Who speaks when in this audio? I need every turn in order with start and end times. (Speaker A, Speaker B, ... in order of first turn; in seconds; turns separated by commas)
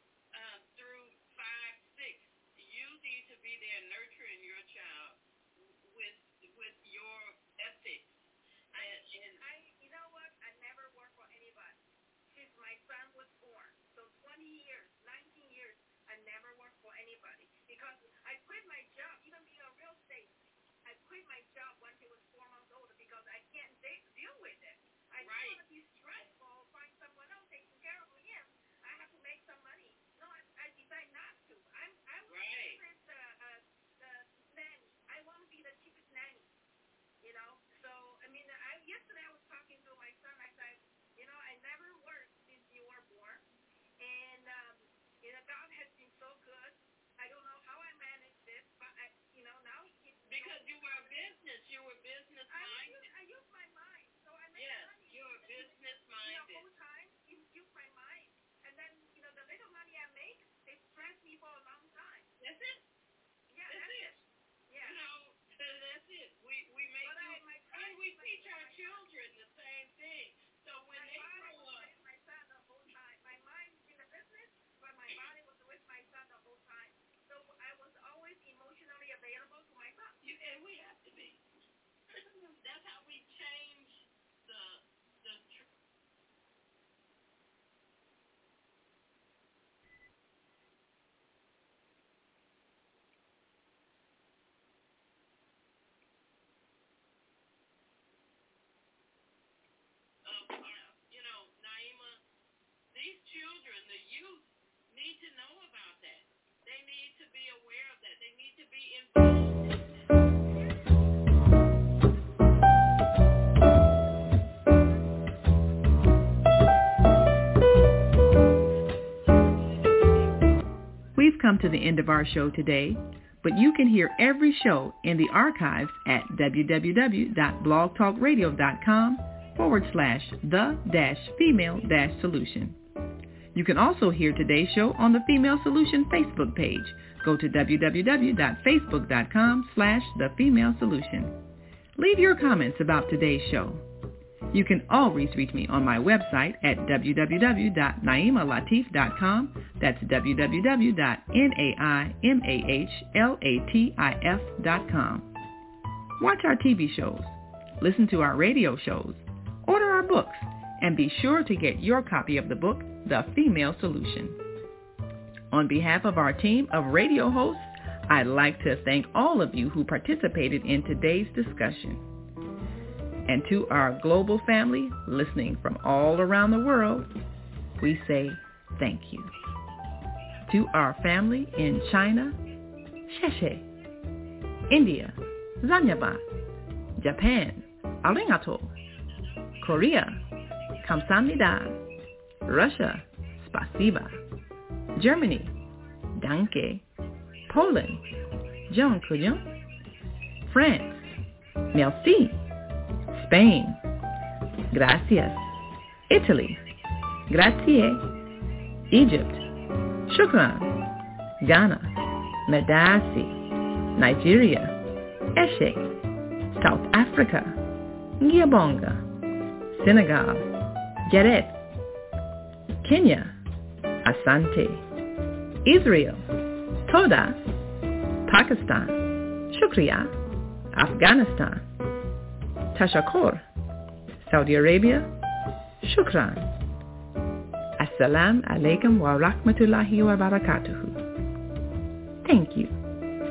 Speaker A: 0.3-9.4, Speaker B: 8.7-36.5, Speaker A: 25.2-25.6, Speaker A: 32.3-32.8, Speaker B: 37.2-43.4, Speaker B: 44.0-51.2, Speaker A: 50.3-53.0, Speaker B: 52.5-62.3, Speaker A: 54.5-56.6, Speaker A: 62.4-62.8, Speaker B: 63.5-65.0, Speaker A: 63.7-64.2, Speaker A: 64.8-71.9, Speaker B: 67.0-69.0, Speaker B: 70.9-80.2, Speaker A: 80.2-81.4, Speaker A: 82.1-85.7, Speaker A: 100.2-102.2, Speaker A: 102.9-109.8, Speaker B: 110.5-111.0, Speaker C: 121.1-132.8, Speaker C: 133.5-141.4, Speaker C: 141.9-143.8, Speaker C: 144.5-155.3, Speaker C: 156.2-164.4, Speaker C: 165.5-172.1, Speaker C: 173.2-177.1, Speaker C: 177.8-179.3, Speaker C: 180.4-182.4, Speaker C: 183.1-183.7, Speaker C: 184.7-186.2, Speaker C: 187.0-188.7, Speaker C: 189.6-190.2, Speaker C: 190.8-191.8, Speaker C: 192.4-194.2, Speaker C: 194.9-195.6, Speaker C: 196.1-196.8, Speaker C: 197.5-198.1, Speaker C: 198.7-199.5, Speaker C: 200.4-201.1, Speaker C: 201.7-202.4, Speaker C: 203.1-203.8, Speaker C: 204.7-205.5, Speaker C: 206.1-206.6, Speaker C: 207.3-208.1, Speaker C: 208.9-209.4, Speaker C: 210.1-210.8, Speaker C: 211.4-211.9, Speaker C: 212.4-213.4, Speaker C: 213.9-214.8, Speaker C: 215.3-215.9, Speaker C: 216.5-217.7, Speaker C: 218.2-219.1, Speaker C: 219.7-220.5, Speaker C: 221.1-221.6, Speaker C: 222.8-223.4, Speaker C: 224.0-224.8, Speaker C: 225.6-226.2, Speaker C: 226.8-227.5, Speaker C: 228.2-230.2, Speaker C: 230.7-231.7, Speaker C: 232.7-233.4, Speaker C: 234.2-235.1, Speaker C: 235.8-236.6, Speaker C: 237.8-241.0, Speaker C: 242.2-242.8